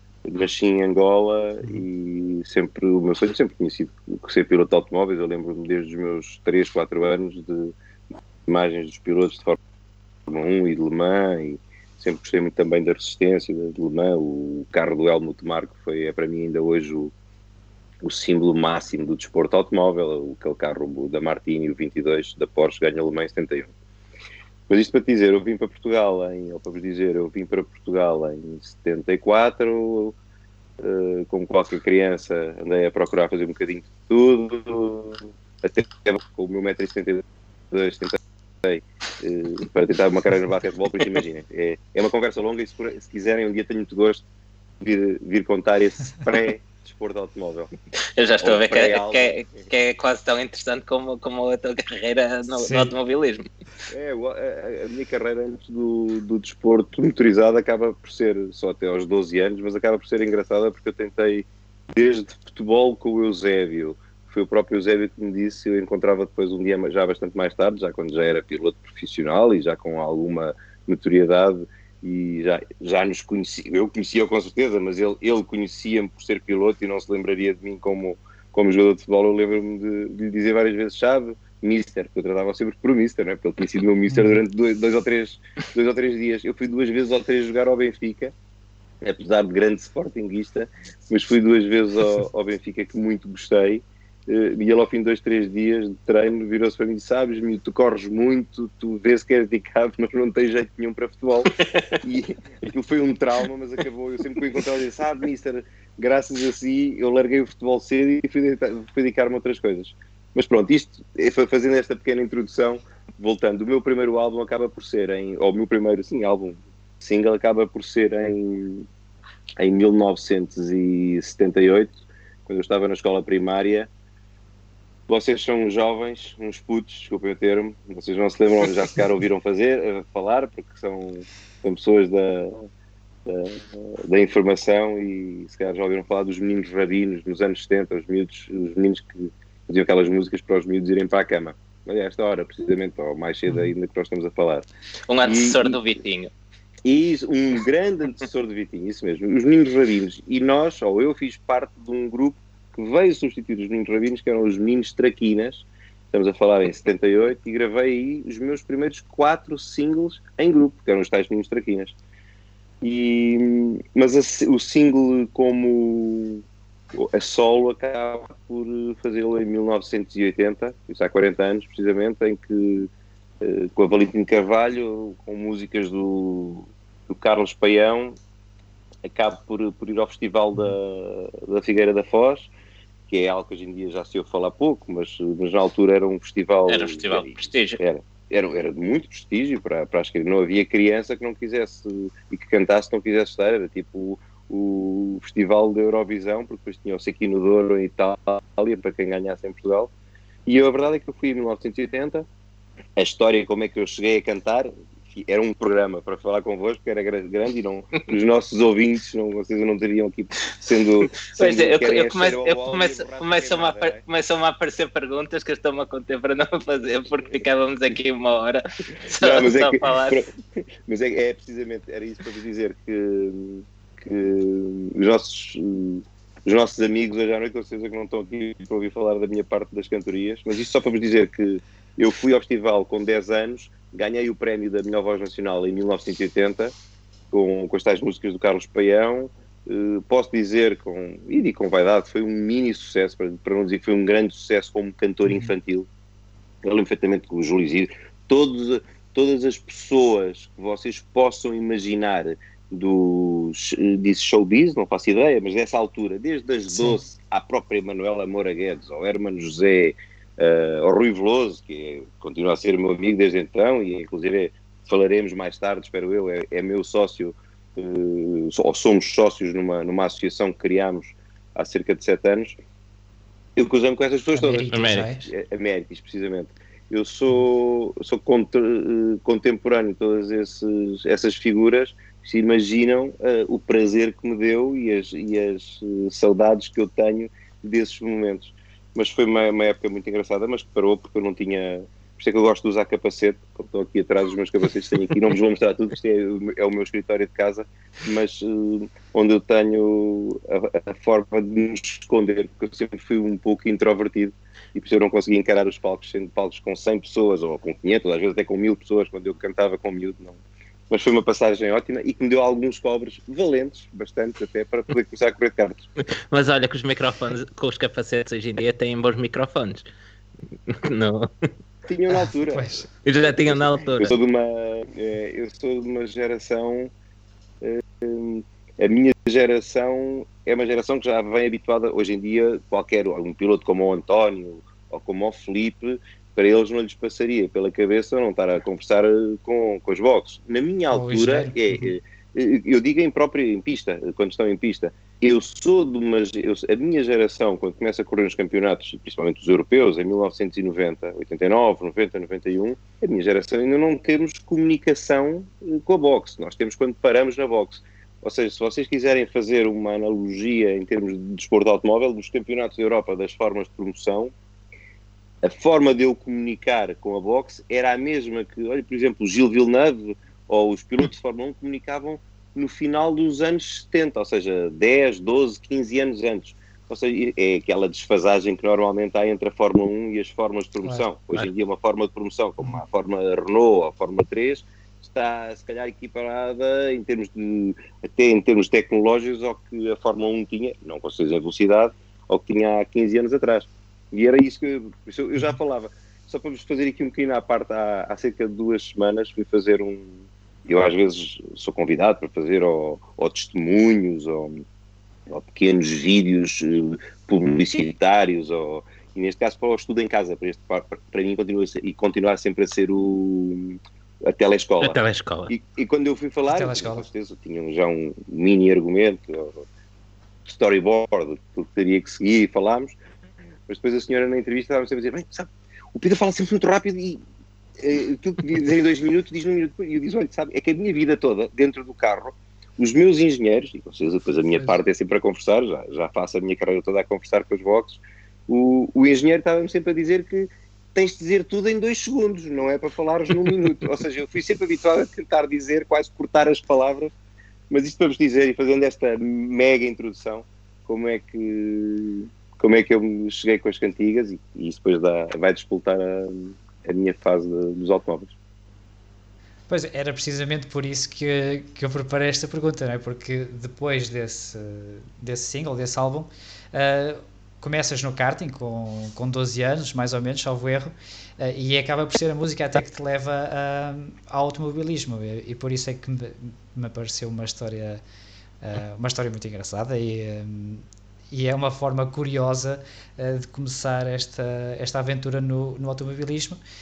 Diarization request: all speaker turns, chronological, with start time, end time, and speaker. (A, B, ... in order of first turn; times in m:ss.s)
0:00.2-0:07.7 A
0:08.4-0:09.6 A
0:10.3-0:17.1 A
0:18.0-0:23.7 A
0:24.7-0:30.2 A
0:30.8-0:44.2 A
0:44.8-0:47.7 A
0:48.2-0:53.5 B
0:48.4-0:49.6 A
0:52.5-0:52.9 C
0:53.9-1:28.3 A
1:24.1-1:24.4 C
1:29.0-1:58.9 A
1:59.6-2:03.9 A
2:05.1-2:12.7 A
2:13.2-2:24.6 A
2:25.1-2:26.3 B
2:25.2-2:25.8 A
2:26.8-2:41.9 A
2:42.8-2:52.9 A
2:53.4-2:58.2 A
2:59.0-3:02.5 A
3:03.1-3:19.9 A
3:06.7-3:07.8 B
3:20.4-3:22.3 A
3:23.0-3:34.0 A
3:31.3-3:40.2 B
3:39.1-3:40.3 A
3:40.8-3:56.7 A
3:57.3-4:05.9 A
4:06.6-4:32.5 A
4:16.7-4:17.1 C
4:33.6-5:15.8 A
4:34.3-4:35.2 C
4:34.7-4:35.1 B
5:16.3-5:19.8 B
5:20.7-5:21.3 B
5:21.9-5:26.9 A
5:22.5-5:22.8 C
5:23.0-5:24.2 B
5:27.6-6:04.3 A
5:40.9-5:41.9 C
6:05.4-6:44.6 A
6:45.3-6:55.0 A
6:54.8-6:55.5 B
6:55.5-6:59.6 A
6:56.5-6:57.0 C
7:00.4-7:03.0 A
7:03.7-7:07.2 A
7:07.8-7:27.1 A
7:27.7-7:38.3 A
7:39.7-7:58.0 C
7:58.6-8:06.6 C